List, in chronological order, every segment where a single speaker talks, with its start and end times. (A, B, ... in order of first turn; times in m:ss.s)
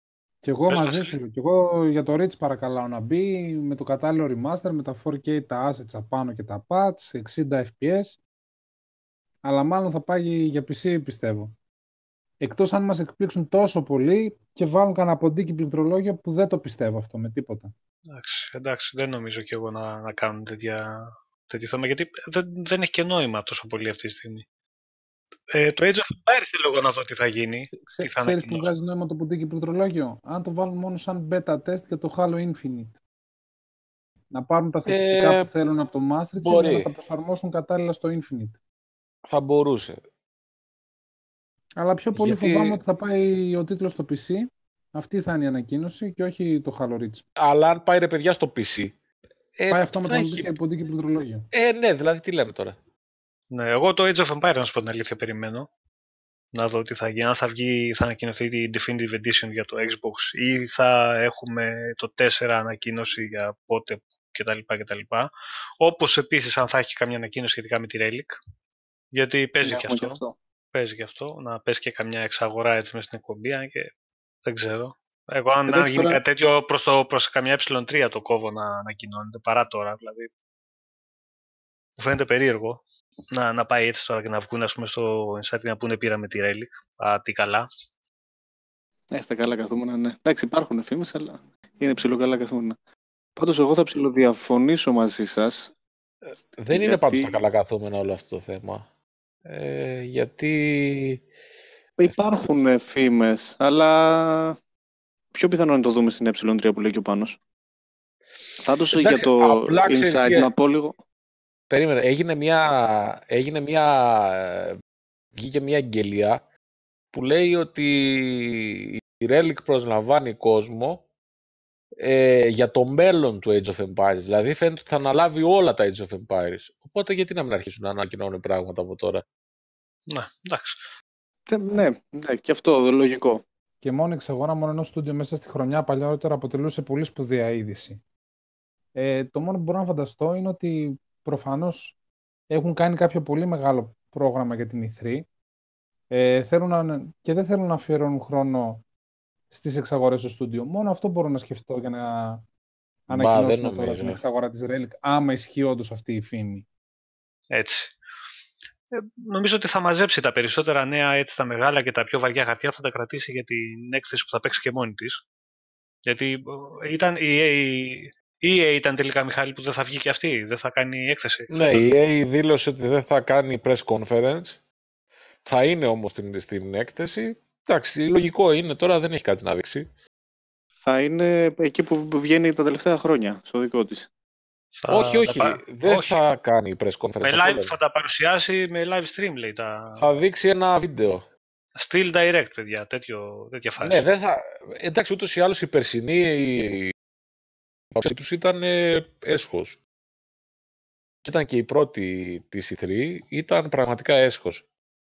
0:00.4-0:08.2 A
0:00.7-0:01.2 B
0:09.4-0:11.5 A
0:12.4-0:17.7 A
0:18.1-0:24.5 B
0:25.5-0:28.7 B
0:27.7-0:33.0 A
0:34.3-0:38.6 A
0:34.9-0:35.5 C
0:36.4-0:36.9 C
0:39.2-0:40.0 C
0:41.8-0:47.2 A
0:42.1-0:42.8 C
0:47.4-0:49.0 C
0:49.6-0:50.5 C
0:49.7-0:51.5 A
0:51.5-0:52.8 C
0:53.5-0:55.7 B
0:56.5-1:08.4 B
1:09.1-1:10.2 B
1:09.6-1:10.4 D
1:10.7-1:13.9 B
1:14.4-1:20.3 B
1:15.7-1:16.2 D
1:22.0-1:27.7 B
1:29.1-1:32.8 D
1:33.4-1:35.7 D
1:36.6-1:38.9 C
1:36.7-1:37.4 D
1:39.4-1:41.2 C
1:42.0-1:44.6 D
1:45.3-1:47.4 D
1:48.6-1:50.9 D
1:48.9-1:50.5 C
1:51.7-1:54.8 C
1:55.4-1:56.4 C
1:57.1-2:01.0 C
2:02.0-2:09.2 C
2:10.1-2:10.8 B
2:11.5-2:13.4 D
2:13.8-2:18.0 A
2:18.9-2:22.0 A
2:22.5-2:25.2 A
2:26.1-2:28.8 A
2:29.5-2:32.4 A
2:33.1-2:34.2 C
2:33.1-2:36.6 A
2:37.5-2:37.9 B
2:38.9-2:45.2 B
2:46.1-2:51.9 B
2:51.5-2:54.6 C
2:55.4-2:59.9 C
3:00.8-3:04.1 D
3:04.8-3:06.2 B
3:04.9-3:07.7 C
3:07.2-3:10.0 B
3:10.0-3:11.2 C
3:11.8-3:14.0 B
3:13.8-3:16.9 C
3:17.9-3:19.8 C
3:21.2-3:24.6 C